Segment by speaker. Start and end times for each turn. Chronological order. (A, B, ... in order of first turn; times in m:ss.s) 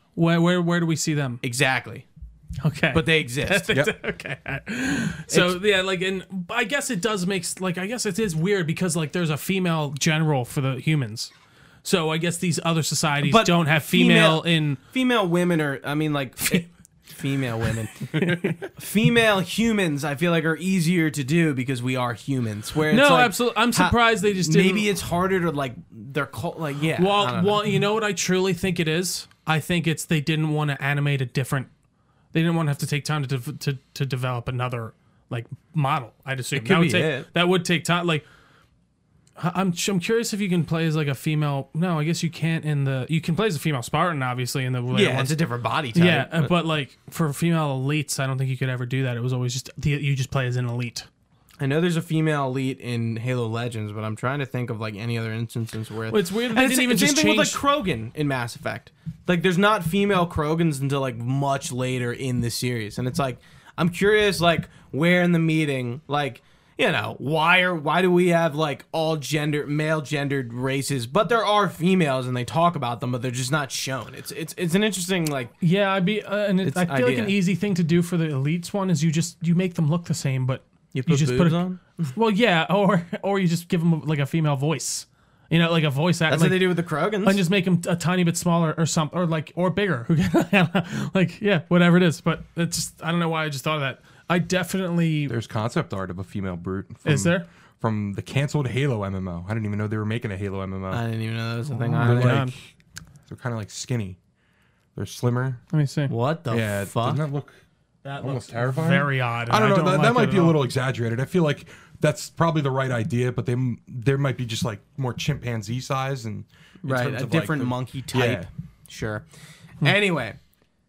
0:00.2-0:01.4 A
0:01.4-0:02.0 B
0:02.6-0:11.3 A
0:02.9-0:03.7 B
0:05.3-0:05.6 B
0:11.8-0:14.8 A
0:13.2-0:27.6 B
0:16.4-0:16.7 A
0:18.1-0:18.6 A
0:22.9-0:24.9 A
0:27.0-0:31.7 A
0:32.3-0:38.2 A
0:36.5-0:37.3 B
0:39.4-0:45.4 A
0:44.9-0:46.5 B
0:46.0-0:51.1 A
0:51.6-1:15.5 B
0:56.1-0:57.6 A
1:15.6-1:35.4 A
1:16.6-1:17.4 B
1:20.9-1:22.1 B
1:26.3-1:27.4 B
1:35.3-1:41.0 C
1:37.0-1:37.5 A
1:40.9-1:42.4 B
1:41.7-1:42.5 A
1:42.0-1:42.6 C
1:43.3-1:44.2 C
1:45.0-1:45.6 C
1:45.7-1:46.1 A
1:46.1-1:47.2 B
1:46.5-1:47.6 C
1:48.0-1:50.6 A
1:48.2-1:58.5 C
1:56.8-1:59.2 B
1:59.8-2:00.4 B